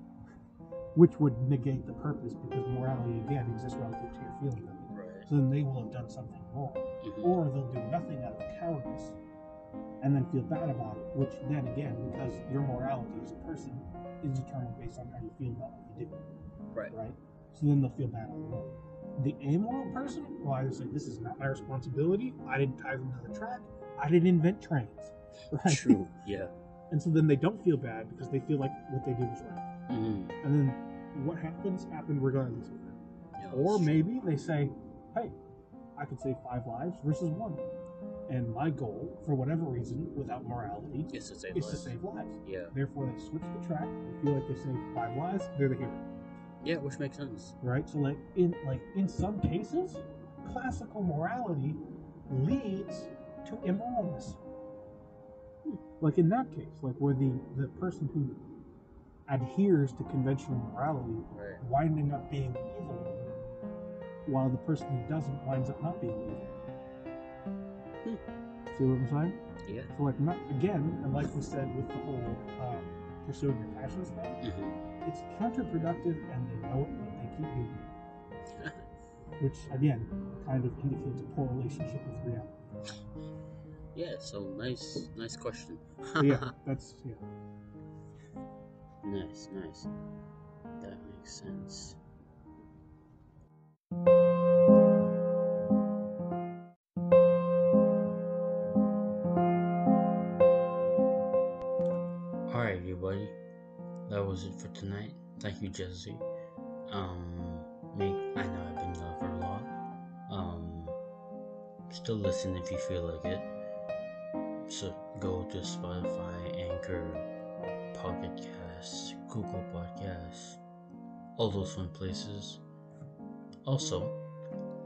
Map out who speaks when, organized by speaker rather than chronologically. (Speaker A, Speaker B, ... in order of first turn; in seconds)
Speaker A: 0.9-9.2, 10.0-16.3, 16.9-26.0, 26.9-29.7, 30.4-35.3, 36.0-37.7, 38.3-46.0, 47.6-54.4, 56.0-58.5, 59.3-63.4, 64.3-66.6, 68.7-69.4, 70.0-74.4, 75.0-78.0, 79.4-82.5, 86.2-87.2
Speaker B: 4.9-5.3, 7.0-7.4, 25.6-26.5, 29.9-30.4, 33.4-34.0, 41.1-42.7, 46.6-47.6, 61.3-61.6, 69.7-69.9, 74.4-74.8, 78.5-78.8, 83.9-86.5, 89.0-89.9, 90.8-92.0, 102.5-103.4, 104.1-106.3, 106.9-109.7, 110.3-111.0, 111.9-113.5, 114.7-117.3, 117.9-120.6, 121.4-122.6, 123.7-124.2